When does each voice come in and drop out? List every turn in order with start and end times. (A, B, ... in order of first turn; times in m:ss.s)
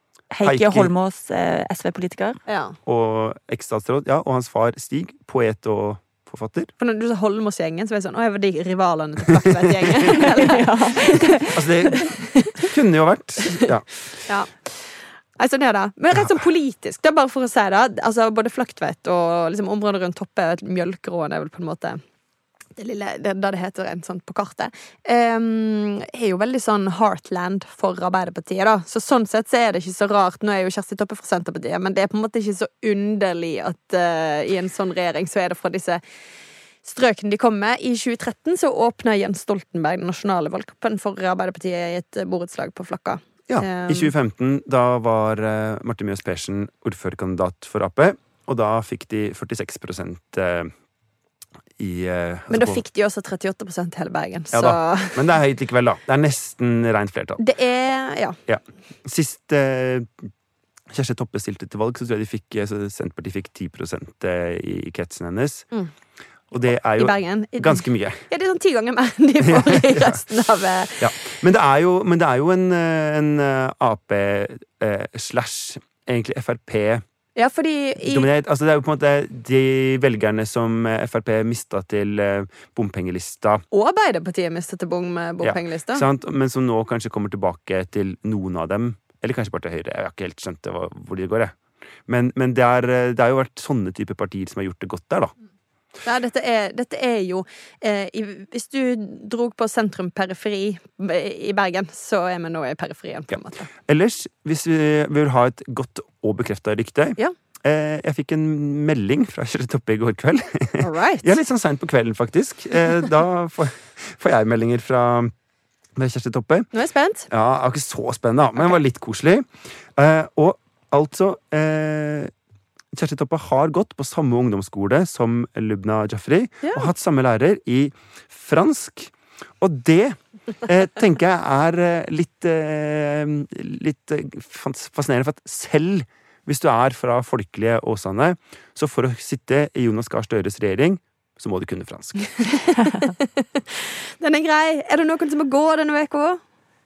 0:00.3-0:02.4 A
0:00.4-0:00.9 B
0:02.5-0:02.8 C
0:02.9-0:06.7 B
0:06.8-0:11.3 C
0:09.8-0:10.1 B
0:10.1-0:12.1 A
0:11.5-0:13.8 B
0:12.4-0:12.7 C
0:14.2-0:22.0 C
0:22.8-0:36.0 C
0:36.8-0:44.1 C
0:43.5-0:50.7 B
0:51.8-0:52.8 B
0:52.5-0:55.3 C
0:54.5-0:57.4 B
0:57.4-0:58.4 C
0:58.5-1:00.3 B
1:00.9-1:05.7 B
1:06.5-1:08.2 B
1:07.0-1:11.1 C
1:09.4-1:10.2 B
1:11.0-1:17.0 B
1:17.4-1:18.3 C
1:18.0-1:23.6 B
1:23.7-1:26.1 C
1:25.4-1:31.5 B
1:32.1-1:35.3 B
1:36.0-1:43.7 C
1:43.9-1:55.3 B
1:50.8-1:51.3 C
1:56.0-1:56.7 B
1:56.7-1:57.3 C
1:57.3-2:02.3 B
2:02.9-2:22.5 B
2:06.6-2:06.9 C
2:22.4-2:26.4 C